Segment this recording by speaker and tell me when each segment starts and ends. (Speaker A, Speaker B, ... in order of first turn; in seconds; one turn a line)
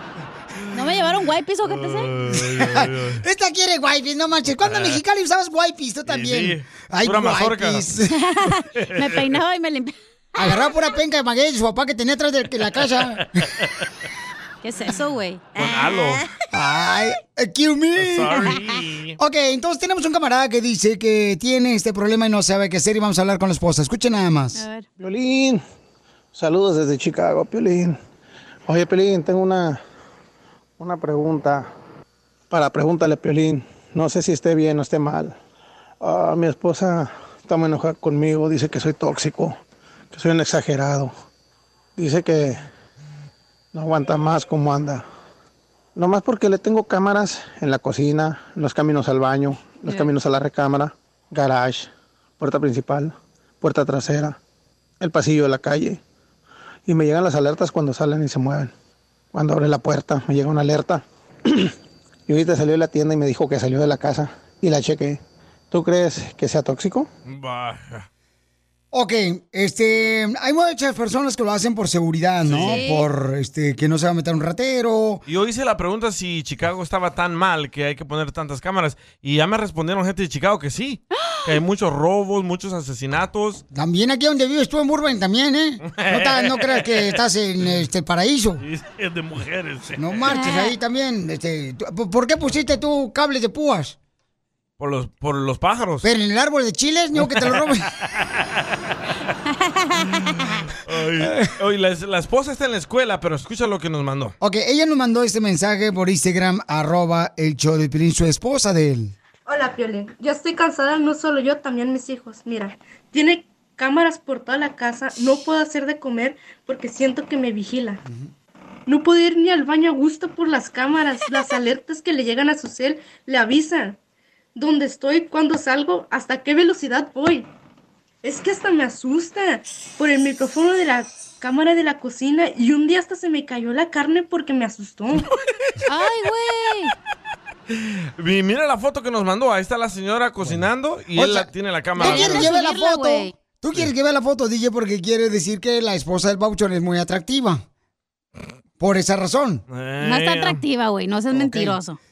Speaker A: 0.7-2.1
Speaker B: 1.7-3.2
Speaker C: 2.5-8.2
Speaker B: 4.6-5.0
Speaker B: 6.1-7.9
Speaker A: 8.2-9.9
Speaker B: 8.8-9.2
Speaker C: 10.4-13.4
Speaker A: 14.6-16.2
Speaker B: 15.6-16.2
Speaker C: 16.5-18.6
Speaker B: 18.0-19.2
Speaker C: 19.2-24.6
Speaker A: 24.6-24.9
Speaker D: 25.0-25.6
Speaker D: 26.3-28.0
Speaker D: 28.7-29.8
Speaker D: 30.8-31.7
Speaker D: 32.5-35.4
Speaker D: 36.0-39.6
Speaker D: 40.1-41.1
Speaker D: 42.0-42.6
Speaker D: 43.7-45.0
Speaker D: 46.0-51.9
Speaker D: 52.4-54.4
Speaker D: 55.0-56.0
Speaker D: 56.9-58.7
Speaker D: 59.3-61.7
Speaker D: 62.3-65.2
Speaker D: 65.7-67.1
Speaker B: 67.3-68.1
Speaker C: 68.9-75.2
Speaker B: 72.4-72.8
Speaker A: 72.6-73.1
Speaker B: 75.3-83.6
Speaker C: 83.7-88.6
Speaker B: 85.8-87.8
Speaker B: 88.6-90.2
Speaker C: 90.0-94.0
Speaker A: 90.3-90.7
Speaker B: 94.8-96.1
Speaker C: 96.0-97.9
Speaker B: 97.2-98.6
Speaker A: 99.8-100.2
Speaker B: 100.7-104.3
Speaker C: 101.2-101.5
Speaker C: 104.4-109.2
Speaker E: 109.5-118.0
Speaker E: 118.9-124.0
Speaker E: 124.5-127.5
Speaker E: 128.2-135.3
Speaker A: 135.9-136.9
Speaker B: 137.7-142.5
Speaker C: 141.2-147.6
Speaker A: 142.0-143.3
Speaker C: 148.8-149.7
Speaker B: 149.7-150.6
Speaker A: 150.0-152.0
Speaker C: 151.3-151.8